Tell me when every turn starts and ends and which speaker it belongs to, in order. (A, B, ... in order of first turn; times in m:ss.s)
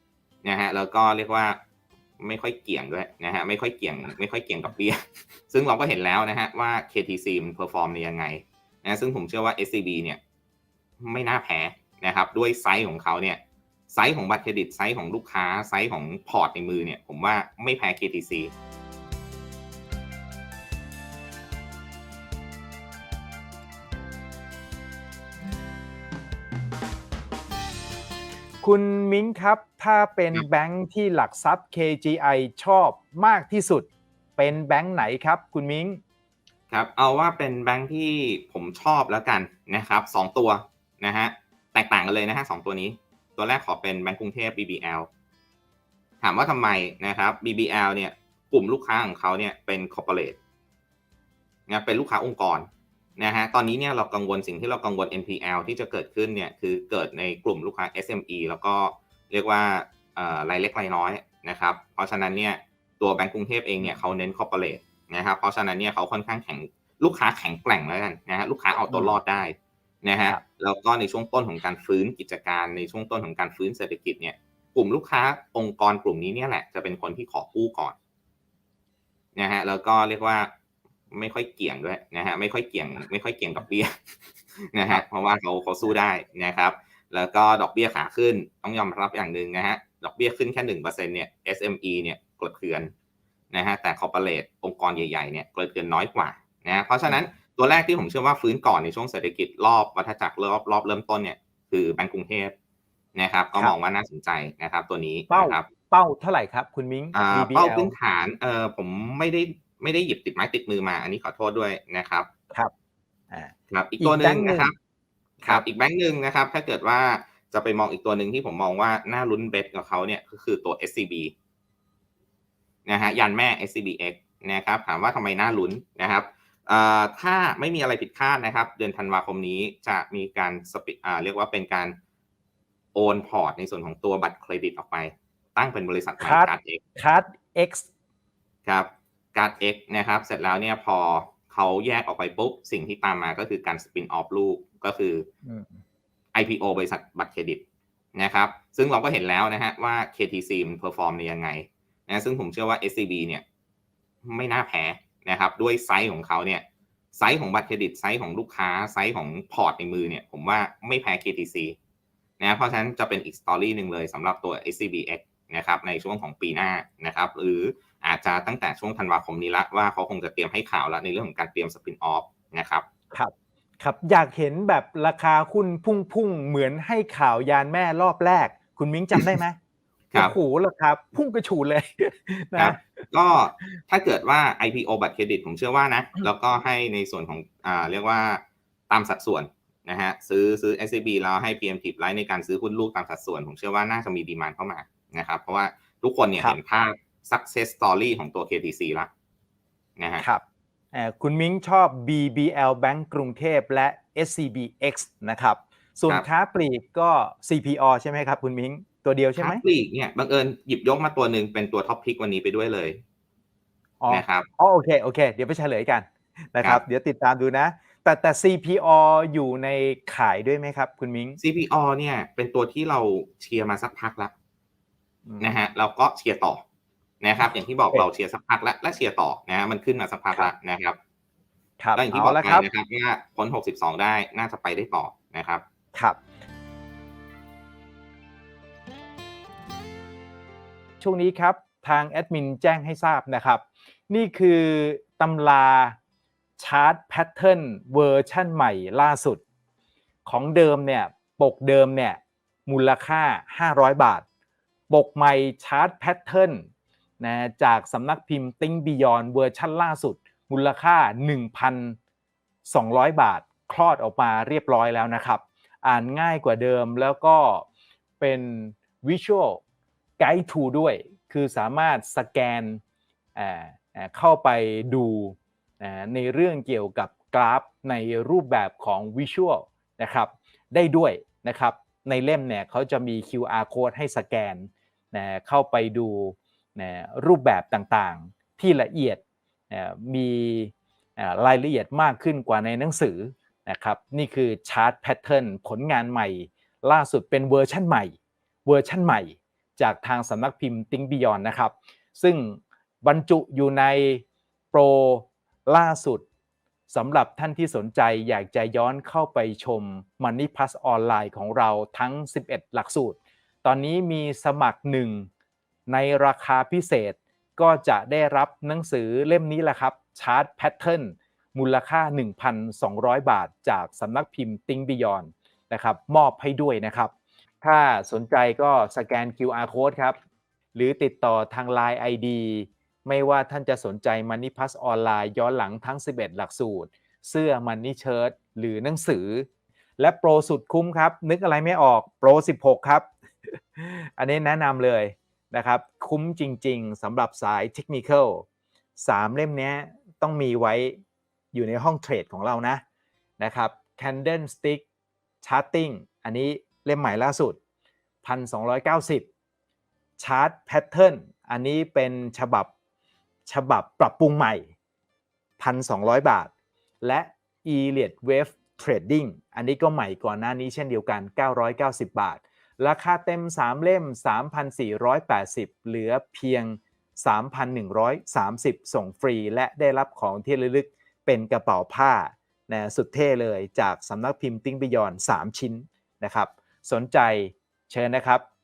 0:00.4-0:01.6 A
0:02.2-0:10.2 A
0:11.0-0:18.5 A
0:28.6-0:36.0 B
0:36.7-0:45.1 A
0:46.2-0:50.4 A
0:51.7-1:18.0 A
1:08.9-1:09.2 B
1:19.4-1:20.5 A
1:21.1-1:23.9 A
1:24.7-1:32.9 A
1:33.5-1:42.5 A
1:43.2-1:45.7 A
1:45.3-1:47.9 B
1:47.1-1:52.3 A
1:53.3-1:54.7 B
1:53.7-1:54.7 A
1:55.4-2:01.3 A
2:02.8-2:12.0 A
2:12.9-2:16.8 A
2:16.2-2:17.9 B
2:18.6-2:25.3 A
2:25.4-2:25.8 B
2:26.3-2:27.6 A
2:28.1-2:33.4 A
2:34.2-2:41.8 A
2:42.4-2:52.8 A
2:53.1-2:59.6 B
3:00.1-3:02.8 B
3:02.6-3:19.1 A
3:20.0-3:20.2 A
3:20.2-3:29.6 B
3:29.4-3:33.0 A
3:34.0-3:41.4 B
3:34.1-3:34.5 A
3:41.4-3:44.3 A
3:45.3-3:45.5 B
3:45.4-3:46.6 A
3:47.2-3:51.0 A
3:51.8-3:52.6 B
3:51.9-3:55.6 A
4:01.0-4:06.0 B
4:06.6-4:09.4 B
4:10.2-4:14.2 B
4:14.9-4:16.7 B
4:17.2-4:22.0 B
4:22.6-4:27.7 B
4:28.2-4:29.6 B
4:30.2-4:32.8 B
4:33.4-5:06.2 B
5:06.9-5:15.3 B
5:15.9-5:30.2 B
5:30.7-5:39.5 B
5:40.0-5:43.1 B
5:43.7-5:51.0 B
5:51.5-5:52.8 B
5:53.4-5:54.8 B
5:55.4-5:57.6 B
5:58.2-5:59.3 B
6:00.2-6:02.7 B
6:03.4-6:04.7 B
6:05.6-6:28.4 B